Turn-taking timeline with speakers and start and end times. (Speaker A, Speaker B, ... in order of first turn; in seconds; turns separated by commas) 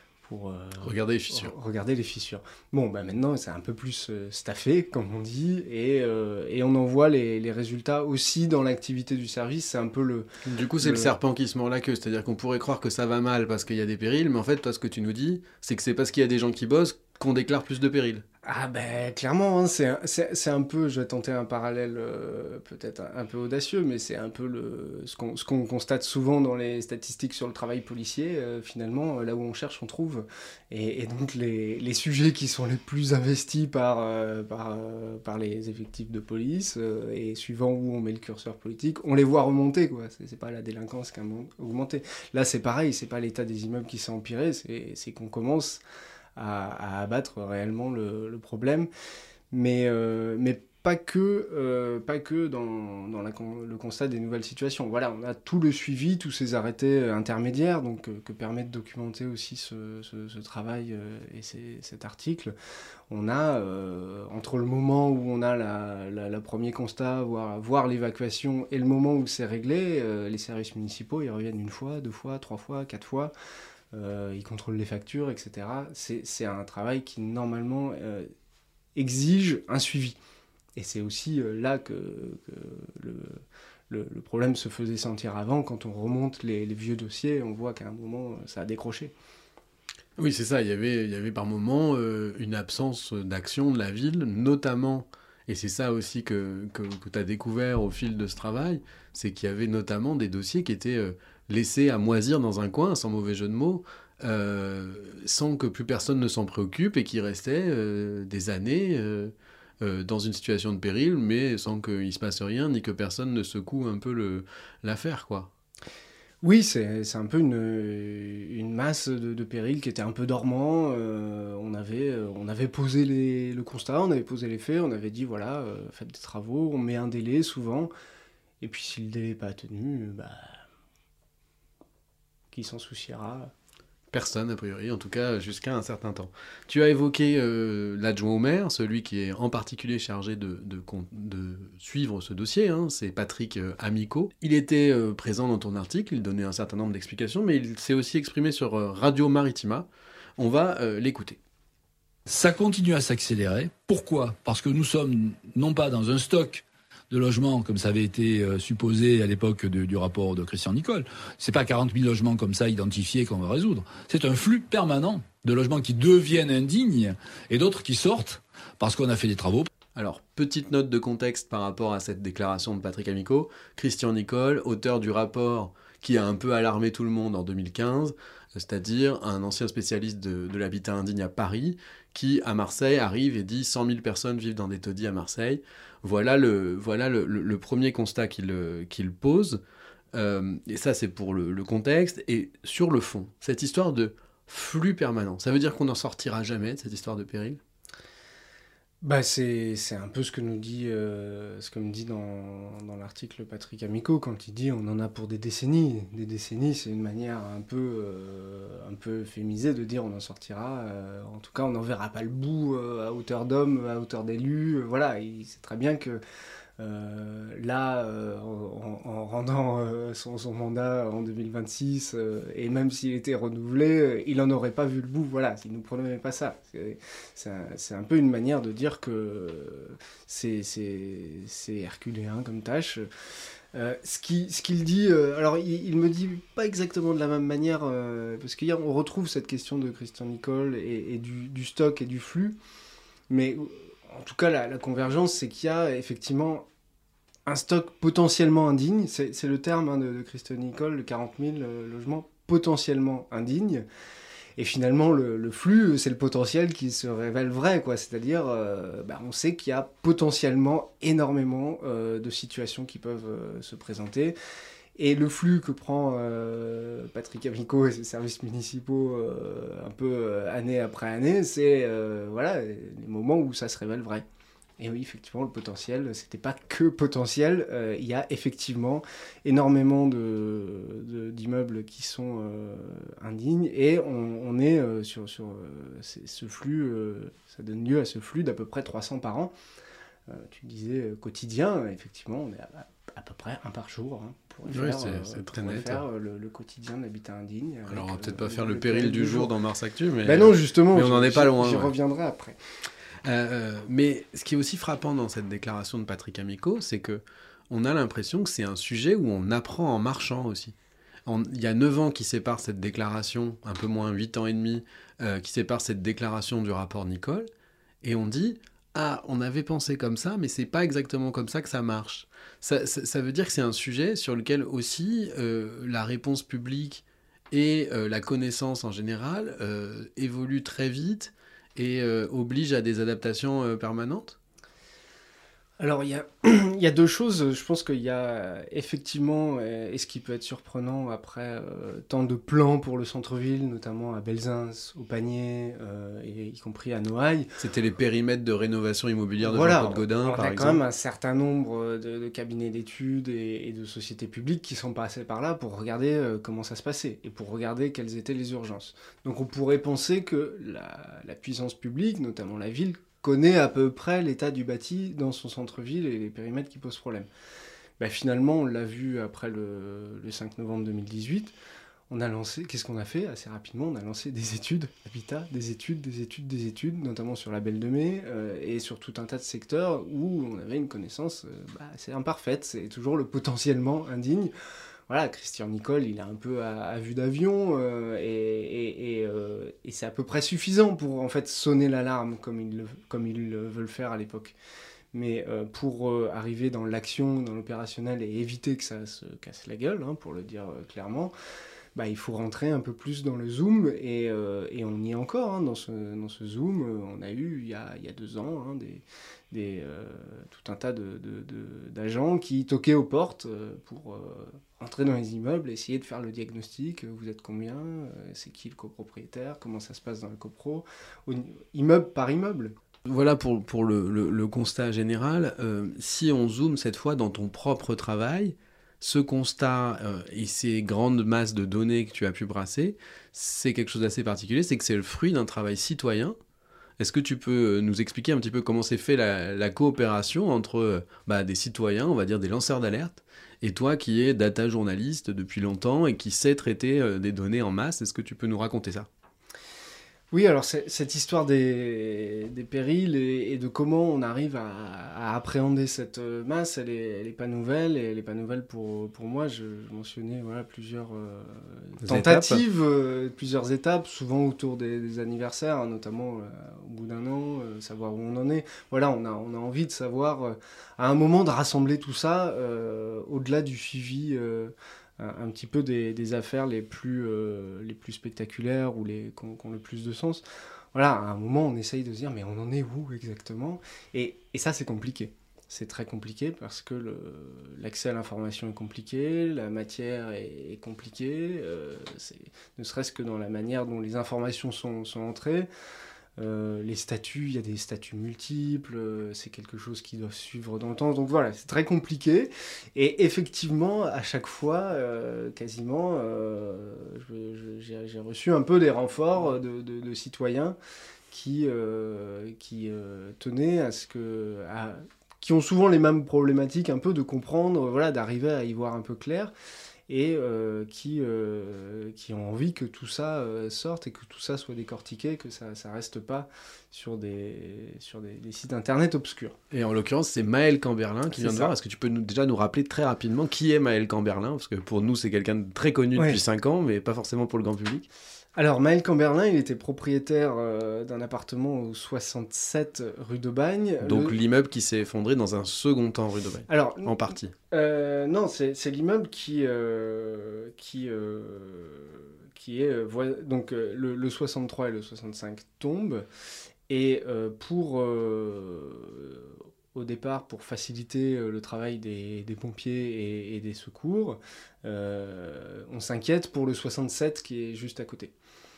Speaker A: 0.2-10.3, Speaker B: 0.8-1.5, Speaker B: 10.4-18.2, Speaker A: 10.8-11.1, Speaker A: 18.4-45.8, Speaker A: 46.4-48.9, Speaker A: 49.5-62.5, Speaker A: 63.1-73.3, Speaker A: 73.9-78.3, Speaker A: 79.0-80.2, Speaker A: 80.8-89.1, Speaker B: 90.2-115.5, Speaker A: 116.4-127.9, Speaker A: 128.6-130.6, Speaker A: 132.5-133.5, Speaker B: 134.1-151.4, Speaker C: 152.3-169.7, Speaker B: 169.9-189.6, Speaker B: 190.1-197.6, Speaker A: 199.0-216.2, Speaker A: 216.8-233.1, Speaker A: 233.7-242.6, Speaker A: 243.3-246.7, Speaker A: 247.5-253.8, Speaker A: 254.6-264.4, Speaker A: 264.9-274.2, Speaker A: 274.8-289.5, Speaker A: 290.3-299.5, Speaker B: 294.7-296.0, Speaker B: 297.9-301.9, Speaker A: 300.2-302.6, Speaker B: 303.2-310.7, Speaker B: 311.2-317.5, Speaker B: 318.0-334.4, Speaker A: 335.8-347.6, Speaker B: 347.6-350.8, Speaker A: 349.4-367.3, Speaker A: 368.0-371.5, Speaker A: 372.1-384.5, Speaker A: 385.1-394.6, Speaker A: 395.1-401.3, Speaker A: 401.9-422.7, Speaker B: 423.1-436.4, Speaker B: 437.0-449.1, Speaker A: 450.3-480.4, Speaker B: 462.0-462.6, Speaker A: 480.9-495.7, Speaker A: 496.4-510.8, Speaker A: 511.3-519.5, Speaker A: 520.1-529.5, Speaker B: 529.7-538.1, Speaker A: 531.3-531.7, Speaker A: 538.5-544.4, Speaker B: 544.0-547.5, Speaker A: 546.7-556.2, Speaker A: 556.9-568.3